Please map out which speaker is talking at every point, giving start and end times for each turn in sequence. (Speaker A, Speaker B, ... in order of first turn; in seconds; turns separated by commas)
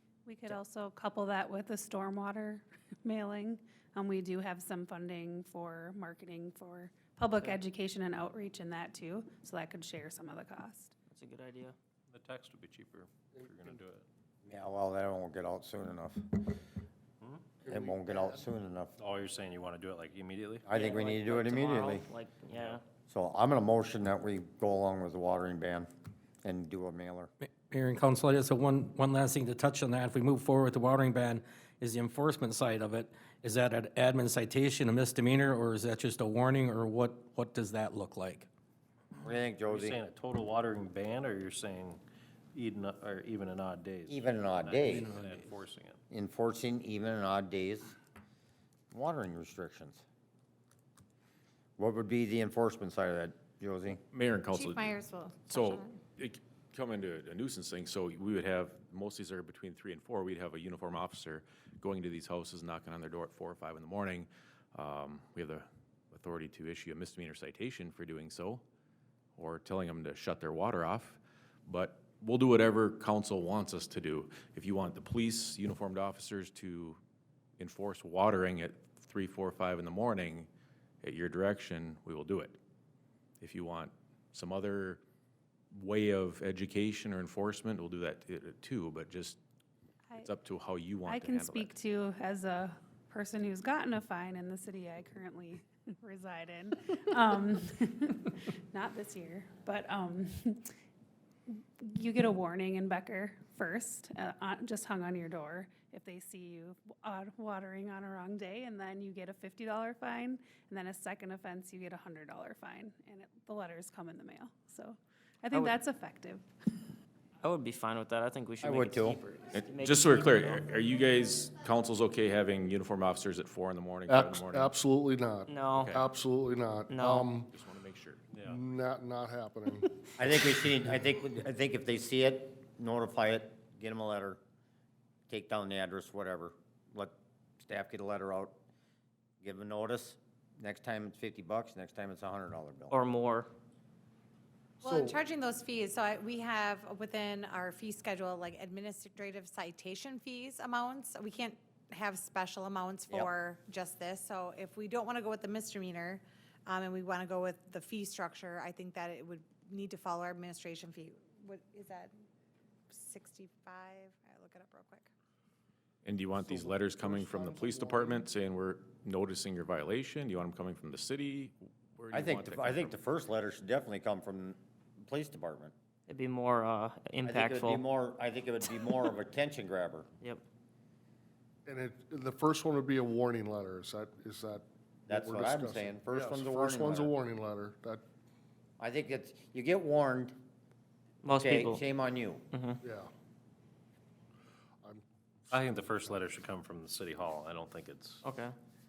Speaker A: 0.2-10.9, Speaker B: 11.1-11.8, Speaker C: 12.1-14.1, Speaker D: 13.3-13.8, Speaker E: 14.4-16.5, Speaker C: 17.2-17.5, Speaker D: 17.6-18.5, Speaker E: 17.7-18.9, Speaker C: 19.0-20.8, Speaker E: 20.7-22.1, Speaker B: 20.7-22.8, Speaker C: 22.5-22.8, Speaker E: 23.1-25.9, Speaker E: 26.4-27.3, Speaker F: 27.4-38.5, Speaker E: 39.2-40.0, Speaker C: 39.6-42.0, Speaker C: 42.5-46.0, Speaker E: 44.1-45.1, Speaker E: 46.1-47.9, Speaker E: 48.9-50.0, Speaker E: 51.8-54.0, Speaker G: 54.1-54.9, Speaker H: 54.5-56.0, Speaker G: 55.5-68.6, Speaker G: 69.3-77.0, Speaker G: 77.6-80.5, Speaker G: 81.0-82.6, Speaker G: 83.4-85.0, Speaker G: 85.7-89.4, Speaker G: 90.2-91.7, Speaker A: 91.0-100.7, Speaker A: 101.5-116.4, Speaker B: 115.5-115.8, Speaker B: 117.4-120.6, Speaker E: 118.6-119.2, Speaker G: 119.5-124.7, Speaker D: 124.0-127.5, Speaker B: 125.5-126.0, Speaker G: 125.7-126.0, Speaker B: 126.9-127.3, Speaker G: 127.4-128.2, Speaker C: 128.3-128.6, Speaker D: 128.5-129.9, Speaker E: 130.2-134.4, Speaker E: 135.3-138.6, Speaker E: 139.4-143.0, Speaker B: 142.9-143.5, Speaker D: 144.8-145.2, Speaker H: 144.8-162.1, Speaker H: 162.9-165.1, Speaker G: 166.0-172.9, Speaker D: 166.3-168.2, Speaker E: 172.1-175.7, Speaker B: 176.1-177.8, Speaker E: 177.2-180.1, Speaker D: 181.7-188.0, Speaker E: 185.1-187.1, Speaker E: 188.8-190.4, Speaker B: 191.2-191.8, Speaker E: 191.3-192.4, Speaker B: 192.5-192.8, Speaker D: 192.8-193.1, Speaker D: 194.8-195.6, Speaker C: 195.5-198.2, Speaker B: 198.2-198.5